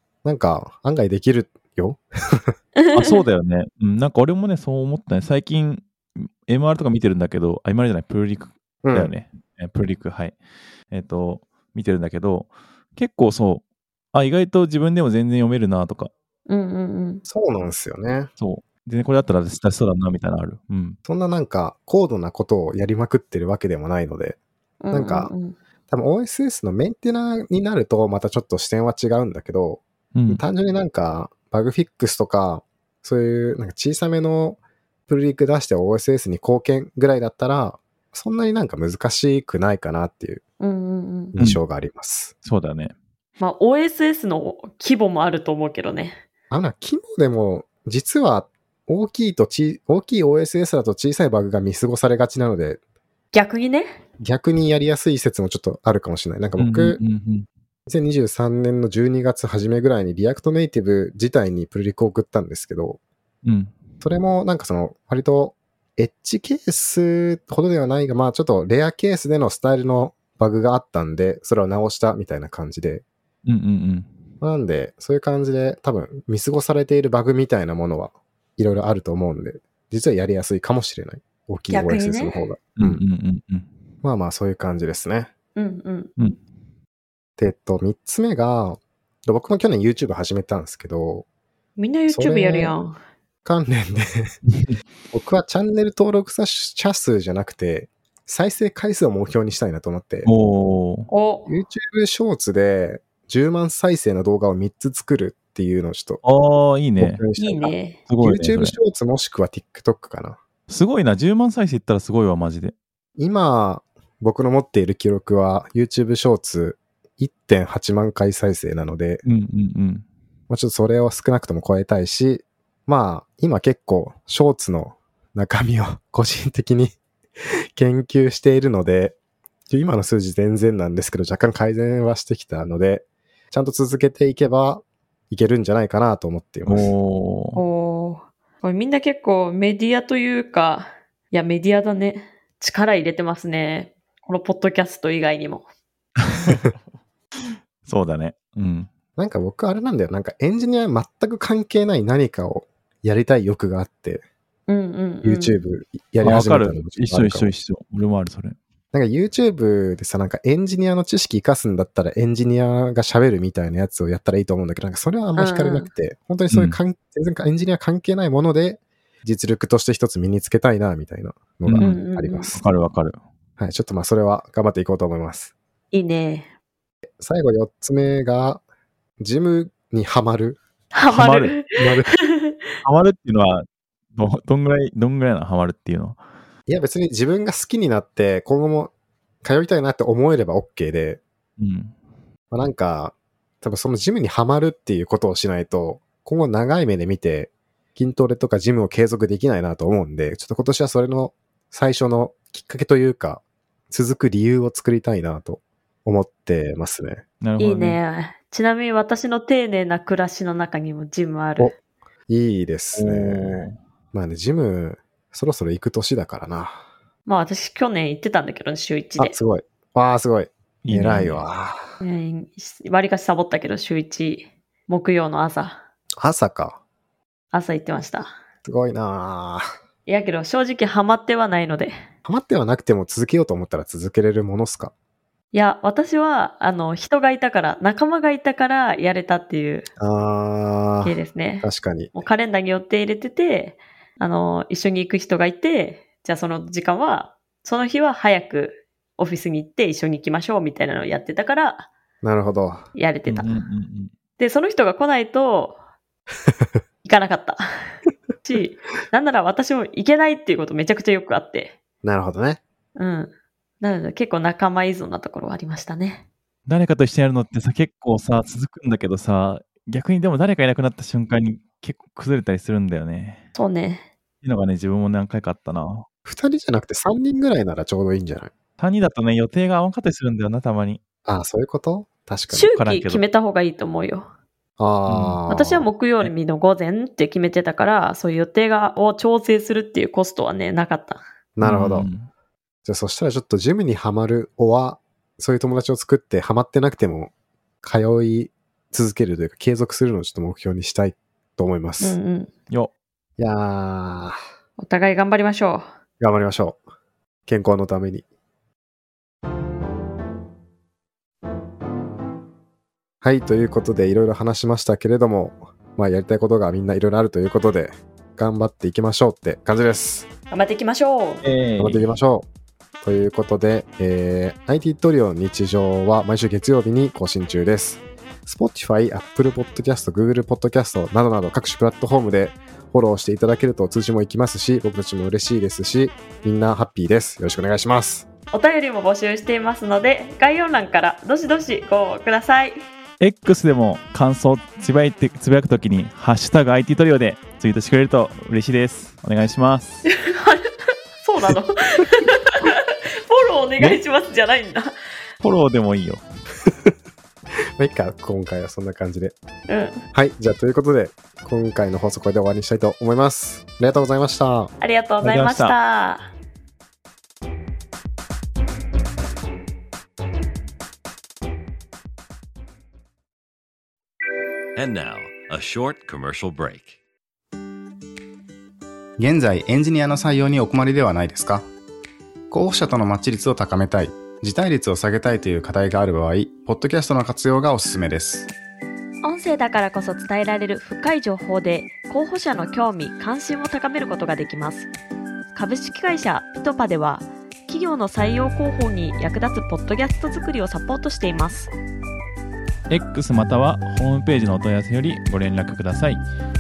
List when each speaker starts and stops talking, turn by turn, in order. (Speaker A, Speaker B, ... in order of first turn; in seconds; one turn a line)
Speaker A: 0.2-2.5
Speaker B: 2.8-3.2
Speaker C: 2.9-10.3
Speaker A: 8.8-9.1
Speaker C: 10.9-16.1
Speaker B: 16.5-17.2
Speaker A: 17.2-18.3
Speaker C: 18.4-21.0
Speaker A: 21.1-24.4
Speaker B: 24.8-25.6
Speaker A: 24.9-25.3
Speaker A: 25.9-40.4
Speaker C: 30.1-30.4
Speaker B: 40.6-41.4
Speaker A: 41.4-42.3
Speaker C: 42.4-42.9
Speaker B: 43.4-46.1
Speaker A: 46.5-52.8
Speaker B: 53.3-54.0
Speaker A: 54.2-57.0
Speaker C: 56.6-57.5
Speaker A: 57.9-63.0
Speaker C: 63.4-63.8
Speaker A: 64.0-73.0
Speaker C: 73.4-74.1
Speaker A: 74.4-83.0
Speaker B: 81.7-82.5
Speaker C: 82.8-83.7
Speaker A: 84.0-85.3
Speaker B: 85.5-86.1
Speaker A: 87.4-91.2
Speaker B: 91.8-93.0
Speaker A: 92.1-92.7
Speaker A: 93.4-94.3
Speaker C: 94.5-94.8
Speaker A: 95.1-100.3
Speaker C: 100.2-101.1
Speaker B: 101.1-101.5
Speaker A: 101.5-106.2
Speaker C: 106.2-107.2
Speaker A: 107.0-110.4
Speaker B: 107.4-108.0
Speaker C: 108.1-108.8
Speaker C: 110.7-112.7
Speaker A: 113.2-119.2
Speaker C: 119.2-120.0
Speaker A: 120.5-127.0
Speaker A: 127.7-129.2
Speaker A: 129.7-136.9
Speaker C: 136.7-137.6
Speaker B: 137.6-145.7
Speaker C: 146.2-146.8
Speaker C: 147.5-148.9
Speaker A: 149.2-154.2
Speaker B: 154.7-155.6
Speaker A: 155.2-157.5
Speaker C: 156.2-158.6
Speaker A: 158.9-172.6
Speaker B: 165.4-165.9
Speaker C: 166.5-166.8
Speaker C: 171.6-171.9
Speaker B: 171.8-172.5
Speaker C: 172.5-173.2
Speaker A: 173.6-175.5
Speaker B: 175.9-176.5
Speaker A: 177.2-178.6
Speaker A: 179.2-180.6
Speaker B: 180.9-182.7
Speaker C: 181.1-181.6
Speaker A: 181.8-182.1
Speaker C: 182.8-186.2
Speaker A: 186.7-188.9
Speaker A: 189.4-191.2
Speaker C: 191.6-191.9
Speaker A: 192.5-207.2
Speaker C: 207.4-208.0
Speaker B: 207.6-211.7
Speaker A: 212.3-216.8
Speaker C: 212.9-213.8
Speaker B: 217.2-219.4
Speaker A: 219.2-221.9
Speaker C: 220.8-221.4
Speaker B: 222.0-225.8
Speaker A: 226.2-226.8
Speaker B: 227.5-228.3
Speaker A: 228.6-229.7
Speaker B: 230.1-231.9
Speaker A: 232.2-234.9
Speaker B: 235.5-239.9
Speaker A: 240.0-242.1
Speaker B: 241.0-251.9
Speaker A: 252.2-252.8
Speaker B: 252.9-253.6
Speaker C: 253.3-254.1
Speaker B: 254.4-255.8
Speaker B: 257.0-261.8
Speaker A: 262.0-262.6
Speaker B: 262.9-266.2
Speaker C: 266.7-273.4
Speaker B: 273.5-274.1
Speaker C: 274.4-276.1
Speaker A: 276.2-278.5
Speaker C: 278.8-281.0
Speaker A: 281.2-282.7
Speaker B: 282.5-284.3
Speaker C: 282.7-283.2
Speaker A: 284.8-285.9
Speaker C: 285.1-285.4
Speaker B: 285.5-291.2
Speaker A: 291.6-292.1
Speaker C: 291.6-292.3
Speaker A: 292.8-297.3
Speaker A: 297.8-302.2
Speaker B: 302.0-302.5
Speaker A: 303.4-304.4
Speaker B: 304.8-305.8
Speaker A: 306.2-306.8
Speaker A: 307.5-308.2
Speaker A: 313.2-320.3
Speaker B: 320.5-321.4
Speaker C: 321.4-322.1
Speaker A: 321.8-322.5
Speaker A: 323.0-338.2
Speaker B: 338.5-342.8
Speaker C: 343.2-350.0
Speaker B: 350.1-350.6
Speaker B: 351.2-354.9
Speaker C: 355.4-356.2
Speaker A: 356.6-356.9
Speaker A: 357.8-359.3
Speaker B: 359.7-360.0
Speaker A: 360.1-364.7
Speaker B: 364.8-366.3
Speaker C: 365.2-365.7
Speaker D: 374.8-377.0
Speaker E: 379.2-381.7
Speaker E: 382.5-388.5
Speaker B: 389.2-394.9
Speaker B: 395.5-401.7
Speaker C: 402.9-406.2